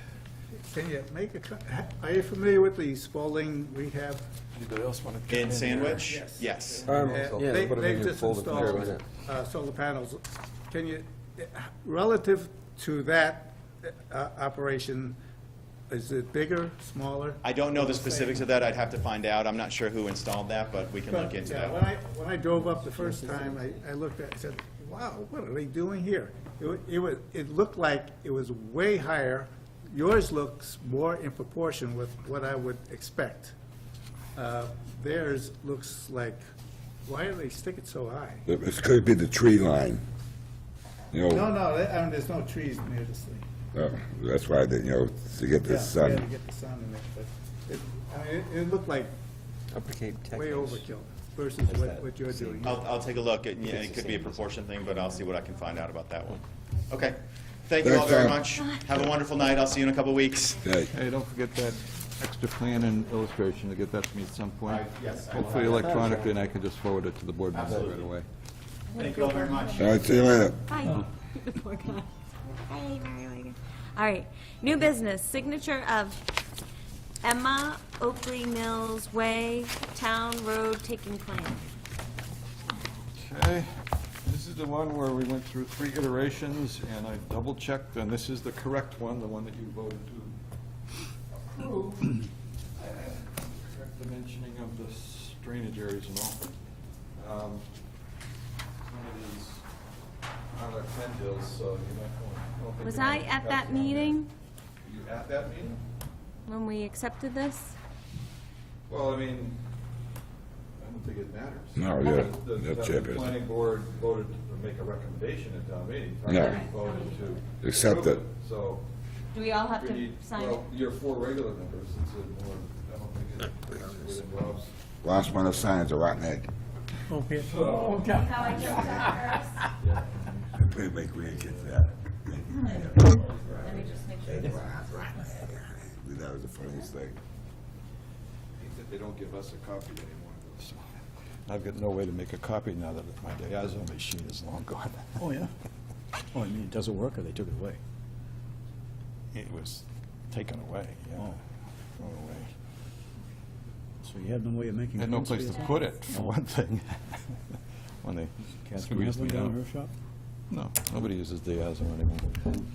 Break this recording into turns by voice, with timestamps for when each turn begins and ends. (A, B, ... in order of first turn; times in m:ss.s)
0:00.6-0:04.3 A
0:04.6-0:06.2 B
0:05.3-0:06.9 C
0:06.0-0:15.2 A
0:06.8-0:08.9 B
0:06.8-0:09.0 D
0:15.9-0:18.5 A
0:17.4-0:21.8 C
0:21.1-0:33.6 A
0:34.4-0:36.4 A
0:37.0-0:38.5 A
0:38.5-0:40.0 E
0:41.1-0:41.5 E
0:41.3-0:43.5 A
0:43.7-0:46.2 E
0:45.6-0:49.1 A
0:49.7-0:50.8 D
0:50.3-0:52.9 A
0:51.7-0:54.9 D
0:52.6-1:00.7 C
0:57.8-0:58.4 E
1:00.6-1:00.9 E
1:00.9-1:08.2 B
1:04.6-1:06.3 C
1:07.5-1:08.1 C
1:08.9-1:10.5 C
1:09.0-1:09.8 F
1:09.8-1:10.6 E
1:10.7-1:12.1 F
1:12.7-1:16.2 F
1:17.2-1:21.6 F
1:23.2-1:23.7 B
1:24.2-1:30.4 B
1:31.3-1:32.2 B
1:32.8-1:36.4 B
1:37.2-1:37.6 B
1:38.8-1:39.6 B
1:40.5-1:44.2 B
1:42.8-1:44.3 F
1:44.8-1:45.8 B
1:46.5-1:47.8 F
1:48.9-1:49.6 B
1:50.8-1:58.8 B
1:51.8-1:53.3 E
1:56.3-1:56.6 E
1:56.4-1:56.7 F
1:57.6-1:58.2 E
1:59.3-2:00.6 F
1:59.7-2:04.7 B
2:05.0-2:06.5 E
2:07.1-2:09.6 A
2:07.4-2:08.7 B
2:08.2-2:09.6 F
2:09.8-2:11.8 B
2:10.6-2:17.2 E
2:12.6-2:14.2 B
2:13.6-2:14.6 F
2:18.6-2:20.9 B
2:21.5-2:25.2 B
2:25.2-2:25.5 G
2:26.3-2:27.8 G
2:29.3-2:31.4 B
2:32.0-2:32.5 B
2:34.0-2:36.3 G
2:35.0-2:37.4 B
2:38.0-2:39.6 B
2:38.6-2:39.9 G
2:40.5-2:42.5 B